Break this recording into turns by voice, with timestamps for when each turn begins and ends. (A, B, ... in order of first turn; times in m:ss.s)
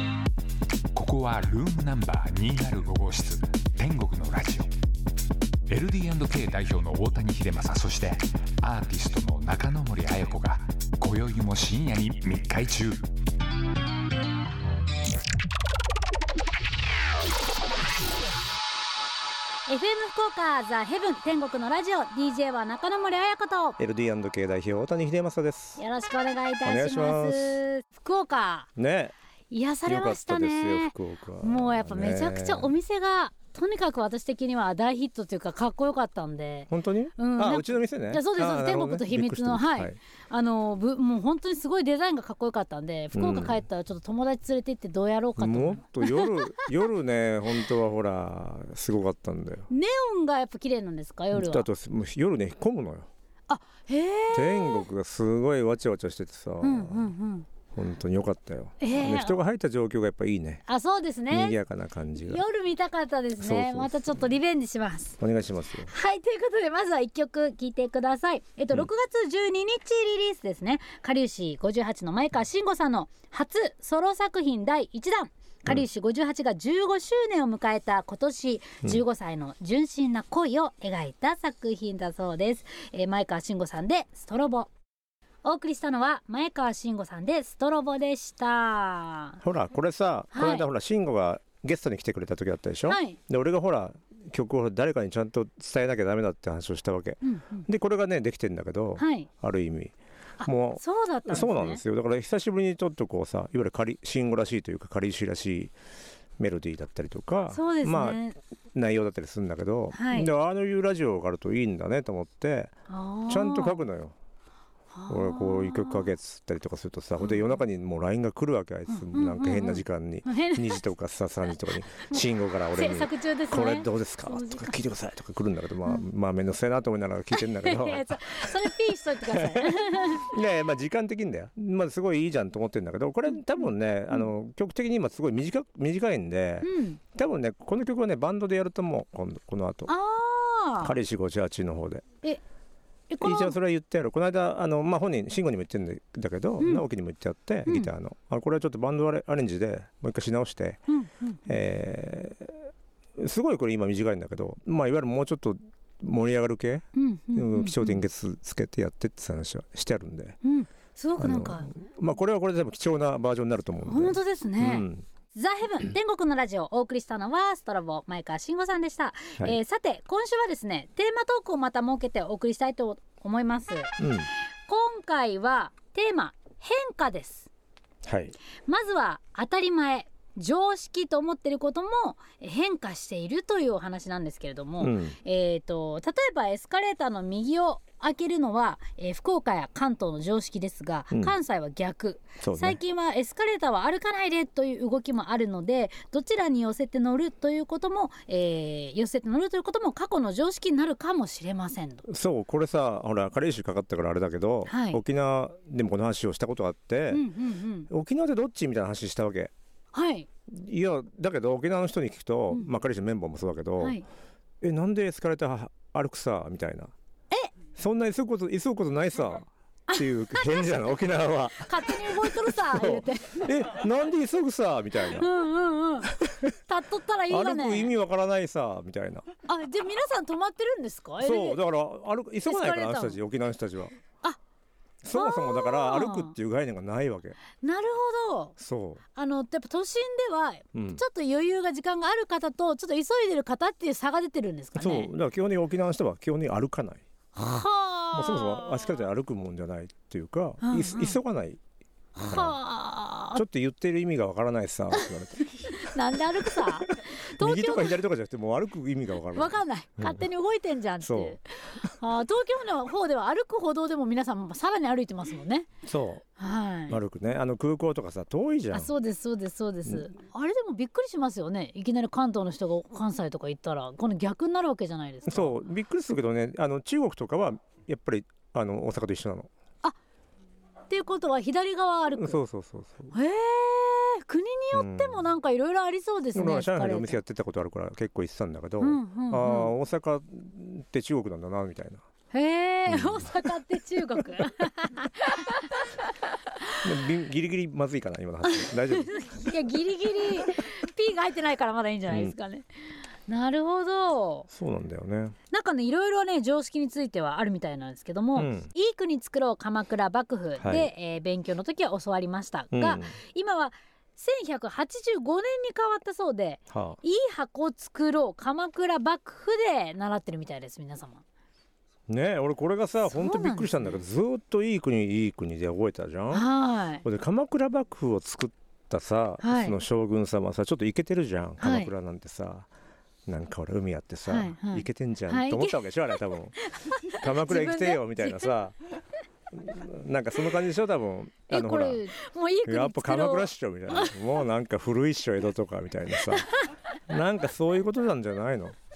0:00.9-0:04.7 A
0:05.7-0:13.0 A
0:19.7-0:23.8 B
0:23.8-0:25.8 C
0:25.8-0:28.7 B
0:26.6-0:27.6 C
0:28.8-0:29.1 C
0:29.5-0:46.7 B
0:29.9-0:32.7 C
0:36.7-0:40.0 C
0:43.1-0:43.6 C
0:45.4-0:49.7 C
0:49.7-0:51.7 B
0:51.3-0:53.1 C
0:53.5-0:54.8 B
0:54.3-0:57.1 C
0:56.6-0:57.5 B
0:57.7-1:00.6 C
0:58.8-0:59.4 B
1:00.7-1:01.6 B
1:01.3-1:02.4 C
1:02.2-1:05.2 B
1:03.4-1:04.3 C
1:05.2-1:05.9 C
1:05.9-1:24.7 B
1:25.4-1:29.4 B
1:29.4-1:45.7 C
1:30.3-1:30.7 B
1:32.9-1:33.2 B
1:37.2-1:37.7 B
1:39.0-1:39.3 B
1:40.4-1:41.8 B
1:46.4-1:48.2 C
1:47.5-1:48.4 B
1:48.7-1:52.8 C
1:49.9-1:50.3 B
1:52.9-1:53.9 B
1:53.3-1:54.2 C
1:54.9-1:56.1 B
1:55.1-2:19.9 C
1:57.2-1:57.6 B
1:58.9-2:00.8 B
2:02.0-2:04.8 B
2:07.3-2:10.3 B
2:13.3-2:14.3 B
2:16.6-2:17.0 B
2:19.9-2:21.0 B
2:20.8-2:22.1 C
2:23.1-2:23.6 B
2:23.2-2:30.8 C
2:26.6-2:26.8 B
2:30.9-2:31.4 B
2:31.5-2:32.6 C
2:33.2-2:40.4 C
2:37.0-2:38.0 B
2:40.4-2:41.7 B
2:41.2-2:45.0 C
2:43.8-2:54.0 B
2:54.0-2:54.3 C
2:54.7-2:57.5 B
2:58.0-2:58.4 C
2:58.6-3:22.0 B
3:04.8-3:05.2 C
3:11.1-3:11.4 C
3:12.4-3:12.8 C
3:22.1-3:27.3 C
3:24.7-3:25.0 B
3:27.1-3:27.9 B
3:27.9-3:29.5 C
3:29.9-3:30.3 B
3:30.5-3:34.0 C
3:33.8-3:34.0 B
3:34.6-3:36.9 C
3:37.8-3:45.3 C
3:39.9-3:40.7 B
3:41.6-3:43.5 B
3:45.1-3:46.2 B
3:46.2-3:46.5 C
3:46.7-3:47.9 B
3:47.3-3:49.3 C
3:49.5-3:51.6 B
3:51.2-3:53.9 C
3:52.5-3:53.2 B
3:55.0-3:57.4 C
3:55.1-3:56.4 B
3:57.6-3:58.6 B
3:58.6-3:59.0 C
3:59.2-4:05.1 B
4:00.7-4:01.0 C
4:04.8-4:07.0 C
4:07.4-4:08.7 B
4:08.1-4:11.6 C
4:10.6-4:11.2 B
4:12.2-4:13.4 B
4:12.3-4:12.6 C
4:13.4-4:20.2 C
4:15.7-4:18.0 B
4:19.3-4:25.7 B
4:21.0-4:21.9 C
4:25.8-4:26.2 C
4:26.4-4:27.0 B
4:26.9-4:28.9 C
4:28.7-4:35.6 B
4:35.3-4:39.5 C
4:40.9-4:42.4 B
4:42.2-4:43.1 C
4:43.1-4:47.2 B
4:44.7-4:45.2 C
4:46.3-4:52.0 C
4:48.8-4:49.7 B
4:52.3-4:55.7 B
4:52.9-4:53.3 C
4:56.8-4:59.2 C
4:58.5-5:02.7 B
5:02.1-5:02.4 C
5:03.3-5:04.5 B
5:04.5-5:05.4 C
5:05.5-5:21.2 B
5:08.4-5:08.7 C
5:10.6-5:10.9 C
5:12.7-5:13.1 C
5:16.7-5:17.0 C
5:22.1-5:26.5 C
5:23.0-5:24.0 B
5:26.3-5:27.0 B
5:27.0-5:32.7 C
5:29.4-5:29.8 B
5:31.6-5:31.9 B
5:33.3-5:36.6 C
5:34.3-5:35.8 B
5:36.7-5:38.5 B
5:37.1-5:38.8 C
5:39.5-5:42.1 C
5:41.5-5:44.2 B
5:42.6-5:46.5 C
5:46.4-5:46.7 B
5:47.1-5:48.8 C